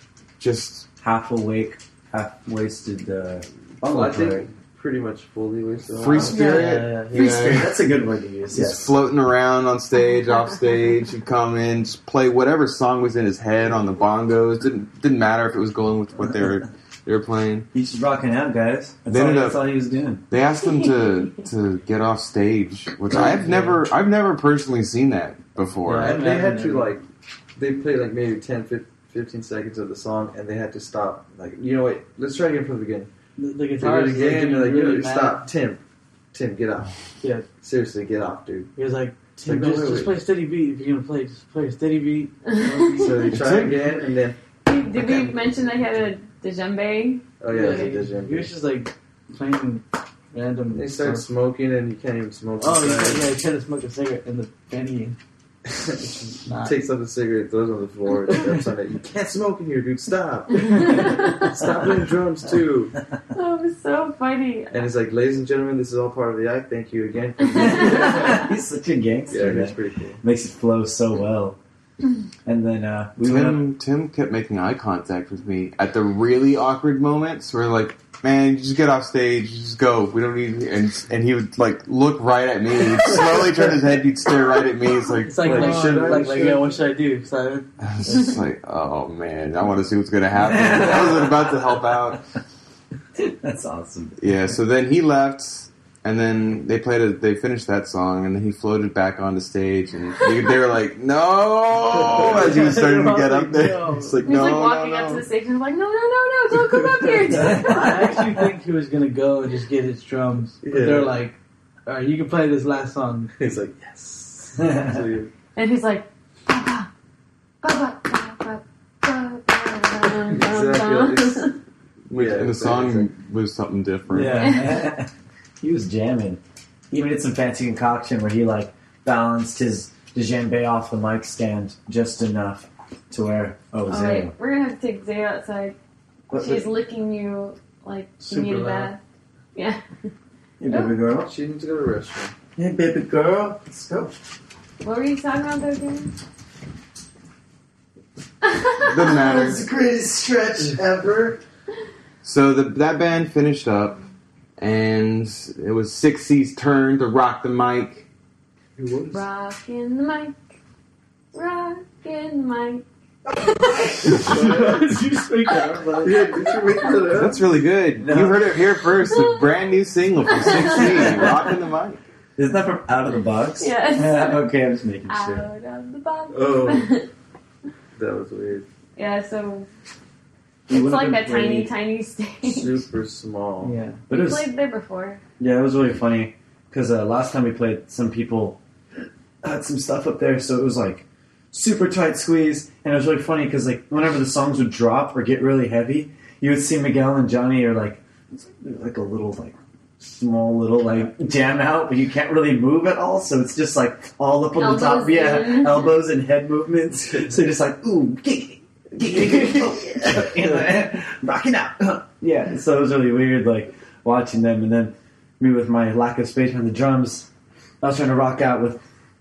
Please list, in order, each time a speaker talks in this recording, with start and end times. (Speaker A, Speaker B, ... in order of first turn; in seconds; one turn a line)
Speaker A: 0.4-0.9
Speaker B: 1.0-4.5
Speaker C: 3.8-6.3
Speaker A: 6.0-7.8
Speaker B: 6.1-8.9
Speaker D: 6.2-7.6
Speaker E: 6.3-6.7
Speaker A: 8.5-17.7
Speaker B: 17.7-20.2
Speaker A: 19.1-19.6
Speaker A: 20.3-26.2
Speaker E: 20.8-21.4
Speaker D: 23.1-23.8
Speaker D: 25.9-26.9
Speaker C: 25.9-27.0
Speaker C: 27.6-33.1
Speaker D: 33.4-35.5
Speaker C: 33.8-35.8
Speaker C: 36.3-37.0
Speaker D: 37.2-37.5
Speaker C: 37.6-38.7
Speaker D: 38.8-43.3
Speaker C: 39.3-40.2
Speaker E: 42.5-43.3
Speaker C: 42.9-44.4
Speaker A: 43.3-44.0
Speaker E: 44.6-48.0
Speaker C: 44.9-45.8
Speaker C: 47.4-48.5
Speaker D: 47.5-51.2
Speaker C: 50.7-53.3
Speaker D: 52.6-55.2
Speaker C: 55.7-63.0
Speaker D: 56.0-56.8
Speaker D: 58.3-58.6
Speaker E: 60.6-61.5
Speaker D: 60.8-61.0
Speaker E: 63.3-64.9
Speaker C: 64.7-68.4
Speaker B: 67.5-71.6
Speaker E: 67.6-68.3
Speaker C: 69.3-70.2
Speaker B: 72.5-73.7
Speaker A: 73.2-86.0
Speaker D: 85.2-88.4
Speaker C: 85.4-86.8
Speaker A: 87.8-92.2
Speaker B: 90.3-92.2
Speaker B: 93.2-94.2
Speaker A: 94.2-105.2
Speaker C: 101.8-102.8
Speaker D: 102.0-104.5
Speaker E: 104.2-108.2
Speaker C: 107.0-107.3
Speaker B: 107.3-108.3
Speaker D: 107.6-113.5
Speaker C: 110.6-111.2
Speaker C: 113.3-115.3
Speaker B: 114.6-114.9
Speaker E: 115.5-116.9
Speaker E: 117.6-121.5
Speaker C: 120.3-121.5
Speaker A: 122.1-124.5
Speaker C: 122.1-123.1
Speaker B: 124.1-134.3
Speaker E: 124.3-124.8
Speaker E: 133.9-135.8
Speaker B: 136.3-136.7
Speaker E: 136.3-139.0
Speaker D: 138.2-138.9
Speaker E: 139.5-139.8
Speaker B: 140.6-141.3
Speaker E: 140.7-140.9
Speaker C: 141.1-142.3
Speaker B: 142.6-144.2
Speaker E: 144.8-146.1
Speaker E: 148.4-149.2
Speaker A: 148.8-149.6
Speaker B: 149.1-151.4
Speaker A: 152.2-154.0
Speaker A: 154.6-158.1
Speaker C: 158.8-159.2
Speaker E: 159.1-160.3
Speaker E: 161.3-164.4
Speaker D: 164.1-166.4
Speaker C: 164.1-165.0
Speaker C: 165.9-167.4
Speaker E: 166.4-166.9
Speaker A: 167.1-172.0
Speaker B: 168.0-168.6
Speaker E: 169.1-169.4
Speaker E: 170.3-171.3
Speaker B: 170.8-171.2
Speaker B: 172.4-175.5
Speaker E: 173.6-174.5
Speaker E: 175.1-177.1
Speaker C: 176.3-177.0
Speaker C: 177.9-178.7
Speaker E: 178.9-179.7
Speaker B: 180.7-181.7
Speaker E: 180.7-182.8
Speaker C: 182.4-183.8
Speaker D: 183.6-184.0
Speaker B: 184.1-184.5
Speaker E: 184.1-185.2
Speaker B: 185.4-188.6
Speaker B: 189.4-217.3
Speaker E: 204.5-206.0
Speaker B: 217.8-218.8